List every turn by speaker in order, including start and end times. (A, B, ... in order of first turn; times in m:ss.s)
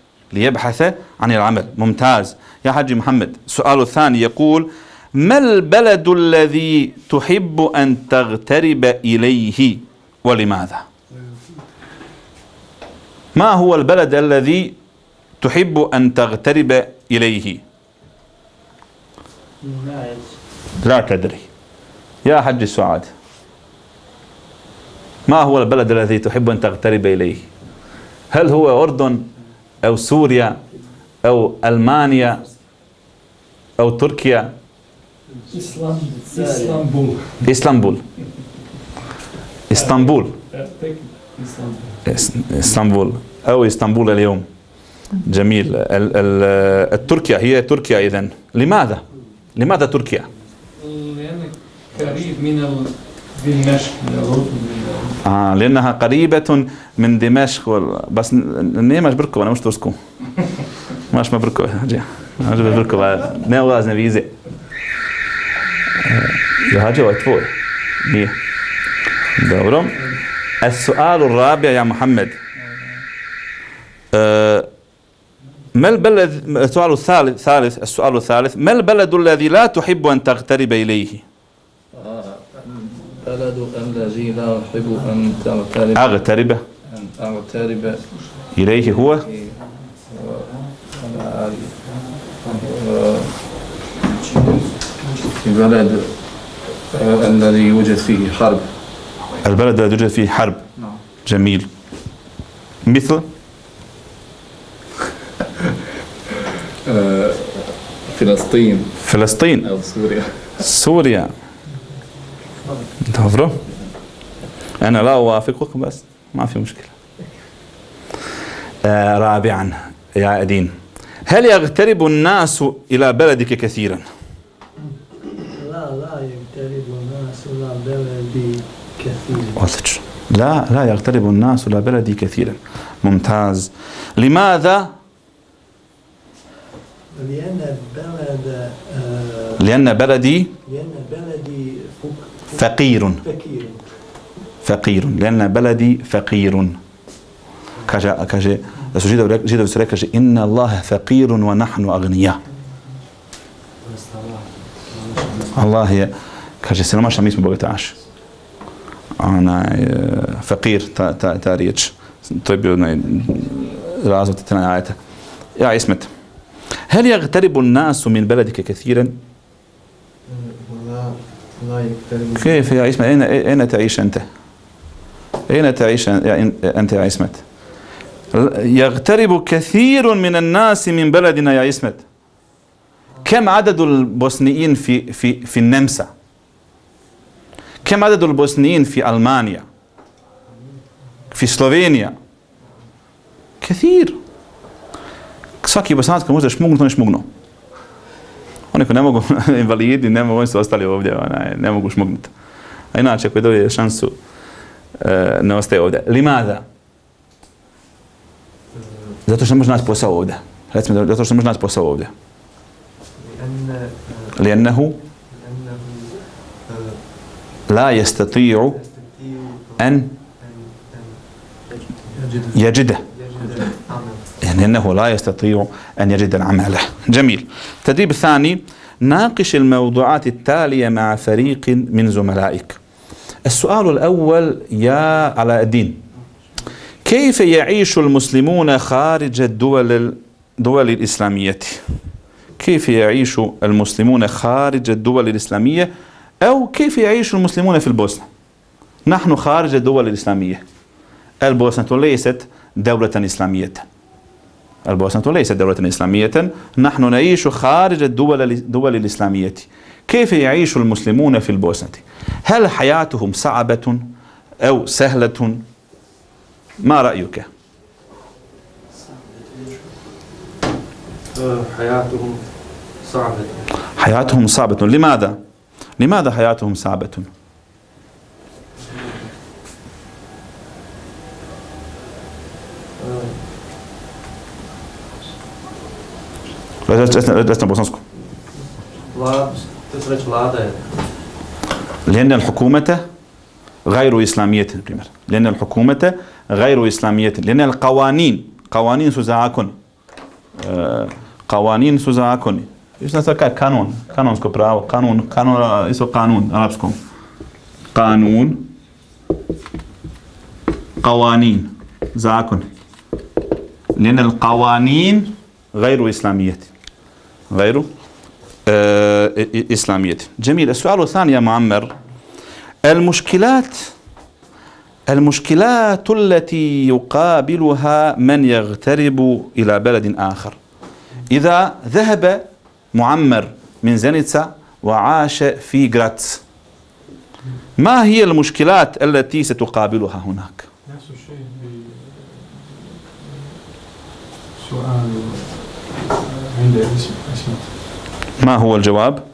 0:00.3-0:10.8 A
0:13.3-0:14.8 A
0:15.4-0:17.6 A
0:20.8-0:21.4 A
0:22.2-0:23.1 A
0:25.2-0:27.5 A
0:28.3-0:29.3 A
0:29.8-0:30.6 A
0:31.2-0:32.4 A
0:33.8-0:34.5 A
0:35.5-0:37.4 B
0:37.4-0:38.0 A
0:39.7-0:40.3 A
0:39.7-0:42.0 B
0:42.0-0:44.4 A
0:45.2-0:49.0 A
0:49.6-0:50.3 A
0:50.8-0:55.2 B
0:55.2-1:00.0 A
1:01.1-1:04.3 A
1:06.0-1:07.5 A
1:08.0-1:08.3 A
1:09.4-1:12.4 A
1:14.1-1:14.7 A
1:15.7-1:21.2 A
1:21.9-1:26.1 C
1:25.9-1:26.6 A
1:26.9-1:28.2 C
1:28.5-1:29.2 A
1:28.8-1:33.6 C
1:34.3-1:34.7 C
1:35.4-1:38.7 C
1:39.4-1:40.6 A
1:40.8-1:41.0 C
1:41.2-1:41.7 A
1:42.8-1:43.2 A
1:46.8-1:49.0 C
1:49.0-1:49.7 A
1:49.6-1:50.5 C
1:50.6-1:51.3 A
1:53.0-1:53.6 A
1:54.8-1:56.9 A
1:58.8-2:00.7 A
2:01.2-2:04.1 A
2:05.5-2:09.6 D
2:09.6-2:14.9 A
2:17.1-2:19.6 D
2:19.6-2:20.5 A
2:20.6-2:22.7 D
2:22.5-2:23.2 A
2:23.2-2:23.9 D
2:24.6-2:26.8 A
2:27.9-2:32.4 A
2:33.9-2:35.3 E
2:35.5-2:38.0 A
2:39.2-2:45.0 A
2:45.6-2:46.1 A
2:46.9-2:49.2 A
2:51.6-2:52.1 E
2:52.4-2:54.2 A
2:55.5-2:57.4 A
2:58.3-3:02.0 A
3:03.2-3:06.1 A
3:07.8-3:09.6 A
3:11.3-3:12.1 A
3:13.6-3:14.2 A
3:15.6-3:17.2 A
3:18.7-3:22.3 A
3:22.9-3:24.1 A
3:25.0-3:26.6 A
3:29.2-3:32.1 A
3:33.2-3:34.3 E
3:34.3-3:35.0 A
3:35.3-3:37.0 E
3:37.7-3:38.8 A
3:38.7-3:42.5 E
3:39.8-3:40.1 A
3:42.5-3:43.0 A
3:43.1-3:44.2 E
3:44.4-3:52.8 A
3:53.4-3:56.0 A
3:57.0-4:01.8 A
4:02.6-4:08.2 A
4:09.0-4:10.6 A
4:11.4-4:13.8 A
4:14.8-4:24.1 A
4:24.6-4:25.6 A
4:26.8-4:27.5 A
4:28.9-4:29.9 E
4:31.3-4:32.4 E
4:33.0-4:33.6 E
4:34.0-4:35.4 A
4:36.0-4:37.3 A
4:38.9-4:39.2 E
4:43.0-4:43.4 E
4:46.9-4:48.0 A
4:49.1-4:50.9 E
4:52.0-4:53.0 A
4:53.8-4:59.7 A
5:00.6-5:07.0 A
5:07.9-5:08.7 A
5:11.0-5:12.7 A
5:14.0-5:16.7 A
5:17.5-5:17.9 A
5:18.6-5:21.9 A
5:22.8-5:23.9 A
5:25.1-5:30.6 A
5:31.3-5:36.4 A
5:37.8-5:40.7 A
5:40.9-5:43.0 B
5:44.6-5:47.7 B
5:48.4-5:49.2 A